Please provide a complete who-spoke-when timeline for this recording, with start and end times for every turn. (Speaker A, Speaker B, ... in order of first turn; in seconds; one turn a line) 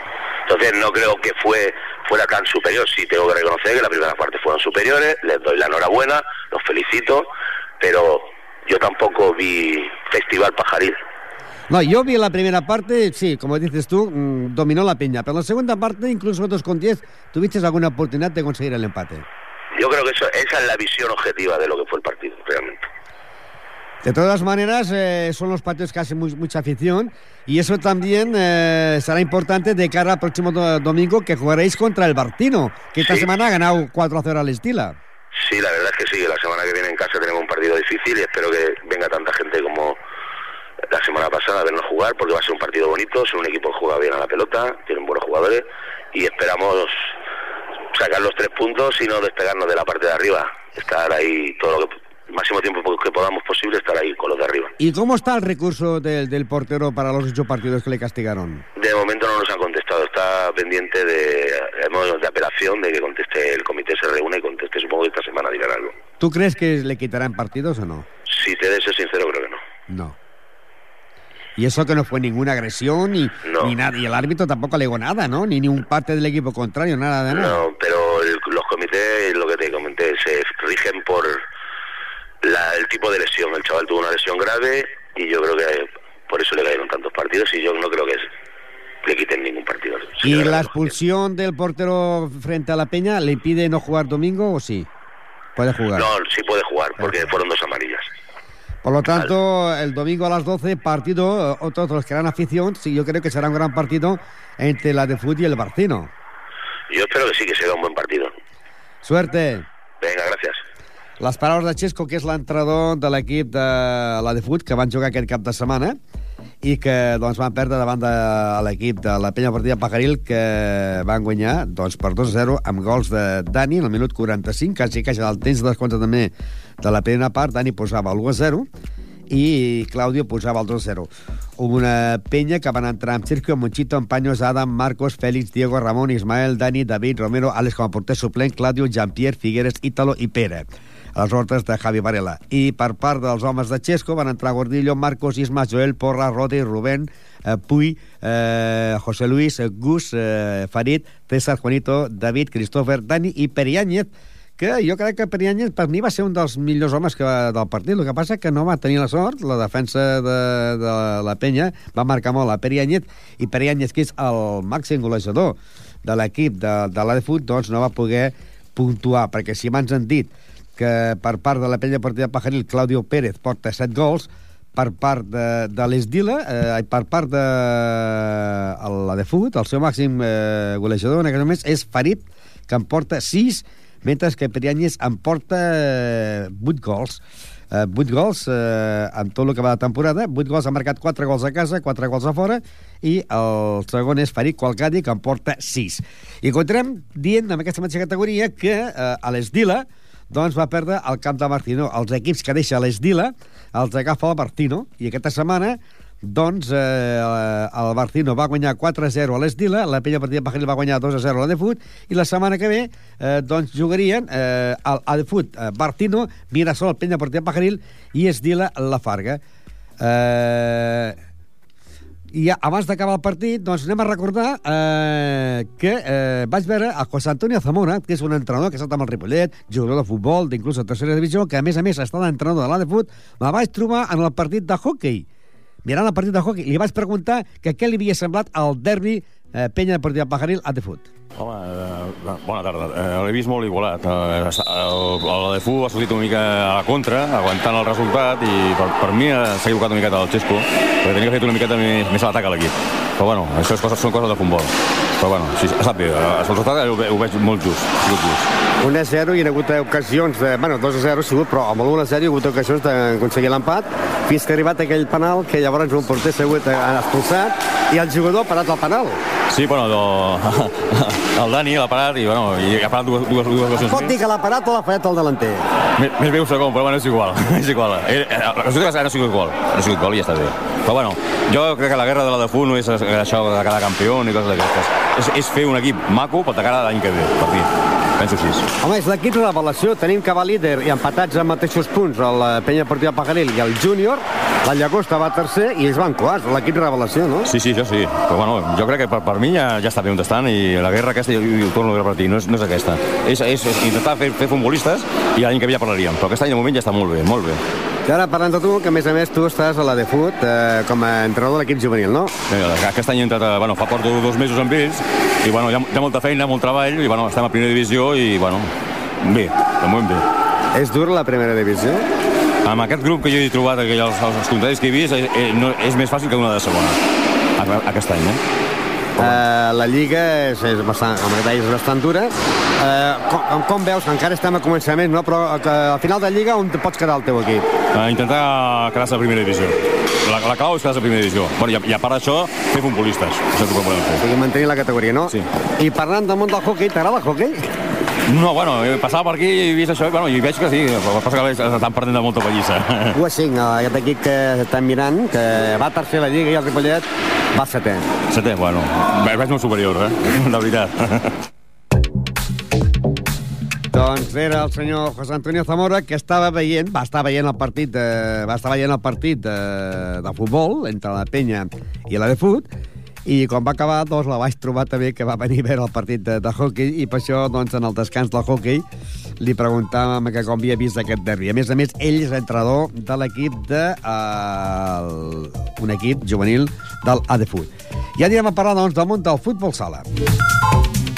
Speaker A: 0.5-7.3
Speaker A: 7.8-11.0
Speaker B: 11.7-19.2
Speaker A: 19.7-22.8
Speaker B: 24.0-35.0
Speaker A: 33.0-33.3
Speaker A: 35.3-40.0
Speaker A: 40.9-47.1
Speaker A: 47.9-54.7
Speaker B: 54.8-58.6
Speaker A: 58.8-65.9
Speaker B: 66.2-68.0
Speaker A: 68.3-69.6
Speaker B: 69.9-70.2
Speaker B: 71.5-77.6
Speaker A: 73.5-73.7
Speaker A: 77.3-81.4
Speaker A: 82.4-88.3
Speaker A: 89.0-90.9
Speaker B: 90.2-94.9
Speaker B: 95.5-96.1
Speaker A: 95.9-98.1
Speaker B: 98.8-106.1
Speaker A: 106.9-108.3
Speaker B: 109.0-109.7
Speaker A: 110.0-110.6
Speaker B: 111.2-116.0
Speaker B: 116.6-128.7
Speaker B: 129.3-219.4
Speaker B: 220.0-221.2
Speaker B: 222.3-235.2
Speaker B: 235.8-241.1
Speaker C: 241.3-258.4
Speaker B: 258.8-269.2
Speaker C: 269.5-274.1
Speaker B: 273.8-275.7
Speaker C: 275.9-288.6
Speaker B: 288.8-297.5
Speaker C: 297.5-307.6
Speaker B: 308.0-312.3
Speaker C: 312.5-320.2
Speaker B: 320.7-322.0
Speaker C: 322.6-327.0
Speaker C: 327.6-328.4
Speaker B: 329.2-337.7
Speaker C: 337.9-344.2
Speaker B: 344.2-347.7
Speaker C: 348.3-353.2
Speaker B: 353.1-358.1
Speaker C: 358.3-361.4
Speaker B: 363.9-372.7
Speaker B: 373.2-378.8
Speaker B: 379.4-390.1